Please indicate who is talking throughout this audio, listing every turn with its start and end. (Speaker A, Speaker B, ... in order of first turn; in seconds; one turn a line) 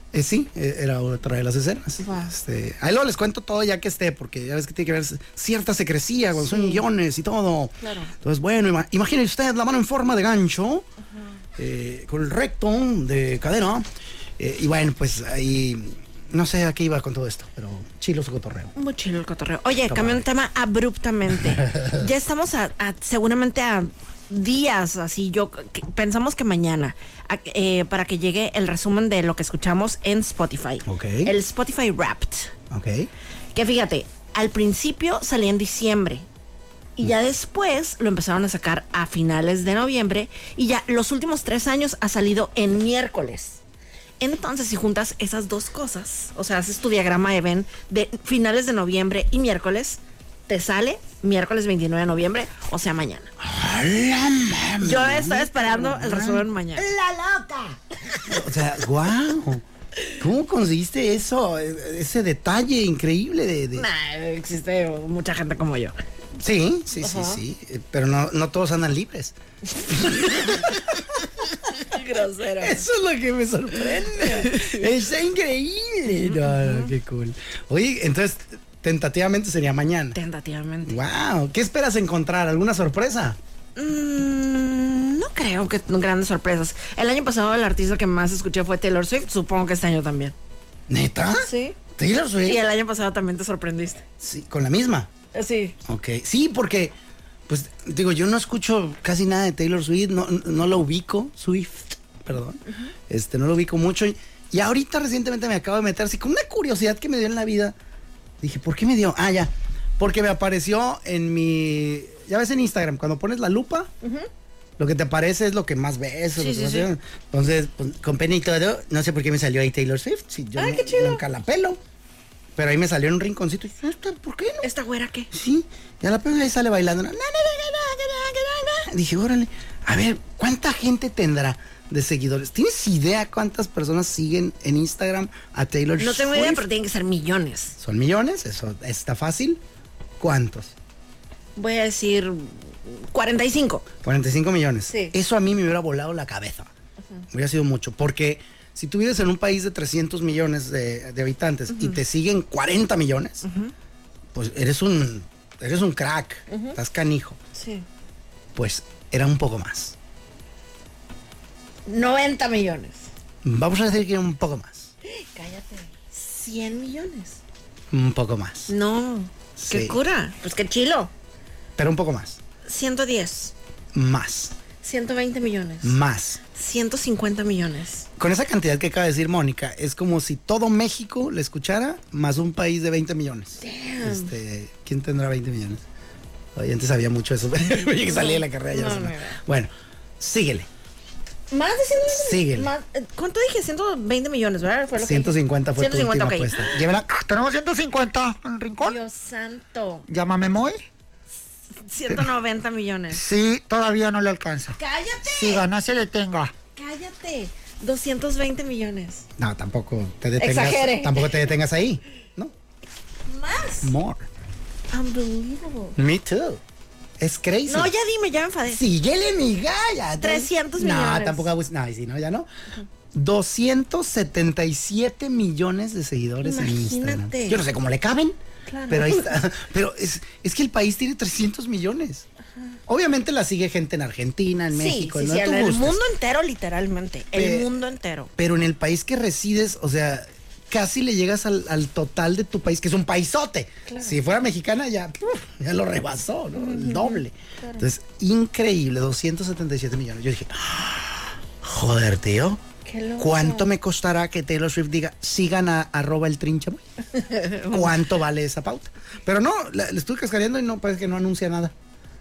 Speaker A: 0.1-10.9
Speaker B: 2.0-2.3
Speaker B: 6.3-6.8
Speaker B: 7.8-8.1
Speaker A: 11.6-13.8
Speaker A: 14.4-18.7
Speaker B: 18.7-32.5
Speaker A: 19.9-20.2
Speaker A: 21.7-22.0
Speaker A: 30.8-31.3
Speaker A: 32.7-33.1
Speaker B: 33.5-36.2
Speaker B: 37.0-43.6
Speaker B: 44.2-53.3
Speaker A: 53.4-59.6
Speaker B: 54.8-56.9
Speaker A: 60.2-63.9
Speaker B: 63.7-65.9
Speaker A: 66.4-69.3
Speaker B: 67.0-67.4
Speaker A: 69.8-71.0
Speaker B: 70.0-70.8
Speaker B: 71.7-72.8
Speaker A: 72.6-80.2
Speaker B: 74.2-74.8
Speaker B: 76.1-76.9
Speaker B: 80.1-81.0
Speaker A: 80.8-83.4
Speaker B: 83.8-90.3
Speaker A: 90.9-92.6
Speaker B: 91.4-91.8
Speaker B: 92.4-94.0
Speaker A: 94.2-95.1
Speaker B: 95.3-95.8
Speaker A: 95.8-97.0
Speaker A: 97.5-107.8
Speaker B: 102.7-102.9
Speaker A: 108.4-113.9
Speaker B: 114.0-114.3
Speaker A: 114.8-121.8
Speaker B: 116.4-116.9
Speaker B: 120.5-121.2
Speaker A: 122.5-124.7
Speaker B: 124.6-125.3
Speaker A: 125.3-136.7
Speaker B: 136.0-137.8
Speaker A: 137.8-139.6
Speaker A: 140.2-140.7
Speaker B: 141.6-143.8
Speaker A: 144.0-146.7
Speaker B: 144.9-145.1
Speaker A: 147.3-153.4
Speaker B: 151.7-152.0
Speaker B: 153.4-153.7
Speaker A: 154.3-157.4
Speaker B: 156.5-156.8
Speaker B: 157.5-157.8
Speaker A: 158.5-159.9
Speaker B: 161.8-163.1
Speaker A: 163.4-164.9
Speaker B: 165.1-167.4
Speaker A: 167.9-168.7
Speaker B: 168.7-171.1
Speaker A: 169.6-170.0
Speaker A: 171.8-172.4
Speaker B: 172.6-173.5
Speaker A: 173.9-174.5
Speaker B: 174.8-176.0
Speaker A: 175.8-176.4
Speaker B: 176.5-178.1
Speaker A: 178.2-185.8
Speaker B: 183.6-184.3
Speaker A: 186.5-190.7
Speaker B: 188.1-189.4
Speaker B: 191.5-196.8
Speaker A: 192.1-192.7
Speaker A: 195.0-197.1
Speaker C: 197.1-199.0
Speaker B: 198.8-200.1
Speaker C: 200.1-200.8
Speaker B: 201.8-203.2
Speaker C: 203.1-204.8
Speaker B: 204.8-205.6
Speaker C: 205.3-206.5
Speaker B: 206.8-209.2
Speaker A: 209.4-212.5
Speaker B: 210.4-211.3
Speaker B: 213.3-213.9
Speaker A: 213.8-214.3
Speaker B: 214.9-216.0
Speaker A: 215.9-216.6
Speaker A: 217.2-217.9
Speaker B: 217.7-218.8
Speaker A: 218.7-222.5
Speaker B: 220.2-221.5
Speaker A: 223.1-232.2
Speaker B: 226.4-227.6
Speaker B: 228.7-229.3
Speaker A: 232.9-236.0
Speaker B: 234.7-238.3
Speaker A: 237.3-237.7
Speaker A: 238.4-252.6
Speaker B: 243.8-244.2
Speaker B: 246.6-247.9
Speaker B: 252.8-253.7
Speaker A: 253.2-256.8
Speaker B: 257.1-258.0
Speaker A: 257.7-261.7